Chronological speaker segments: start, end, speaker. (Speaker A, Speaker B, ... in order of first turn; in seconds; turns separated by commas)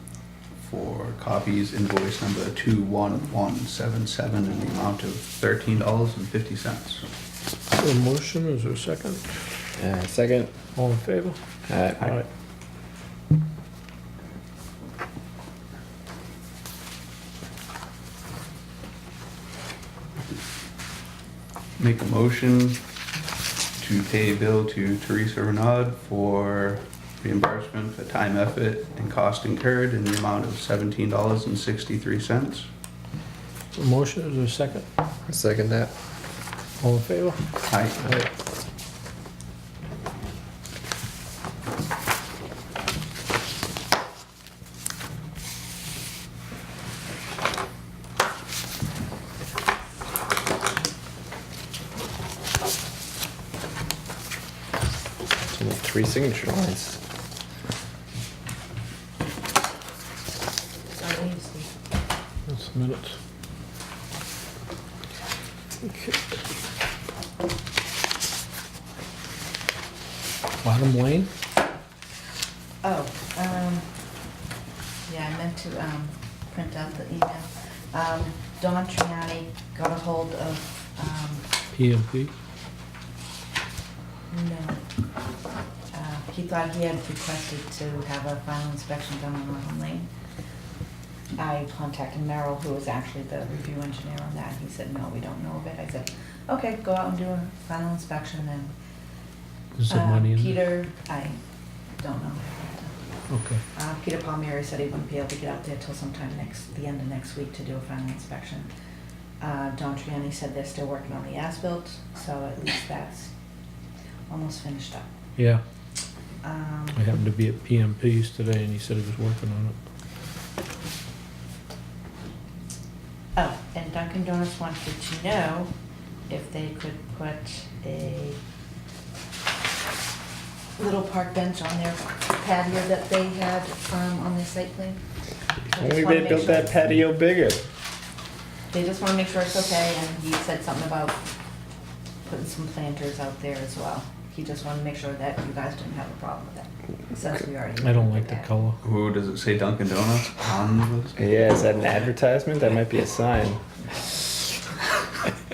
Speaker A: 0.6-7.0, Speaker B: 7.8-9.4, Speaker C: 9.8-10.5, Speaker B: 10.7-11.4, Speaker C: 11.7-12.2, Speaker A: 21.8-22.8, Speaker A: 23.8-32.7, Speaker B: 33.7-34.9, Speaker C: 35.3-35.9, Speaker B: 36.8-37.4, Speaker A: 37.7-38.1, Speaker B: 38.0-38.3, Speaker C: 55.5-57.0, Speaker D: 60.9-61.7, Speaker B: 62.5-63.1, Speaker B: 65.8-66.2, Speaker B: 70.6-71.3, Speaker D: 72.8-73.9, Speaker D: 75.0-81.5, Speaker B: 81.7-82.3, Speaker D: 84.3-84.8, Speaker D: 85.9-90.1, Speaker D: 91.3-98.7, Speaker B: 99.8-100.6, Speaker D: 99.9-101.4, Speaker D: 102.0-103.0, Speaker B: 103.3-103.6, Speaker D: 103.7-108.7, Speaker D: 109.4-113.3, Speaker D: 114.3-115.1, Speaker D: 116.4-117.0, Speaker B: 117.0-119.8, Speaker D: 123.3-125.7, Speaker D: 126.3-128.4, Speaker D: 130.8-135.0, Speaker D: 135.7-136.8, Speaker C: 135.8-137.6, Speaker D: 138.7-141.2, Speaker D: 142.2-148.5, Speaker B: 147.8-148.8, Speaker A: 148.8-151.2, Speaker C: 151.2-153.6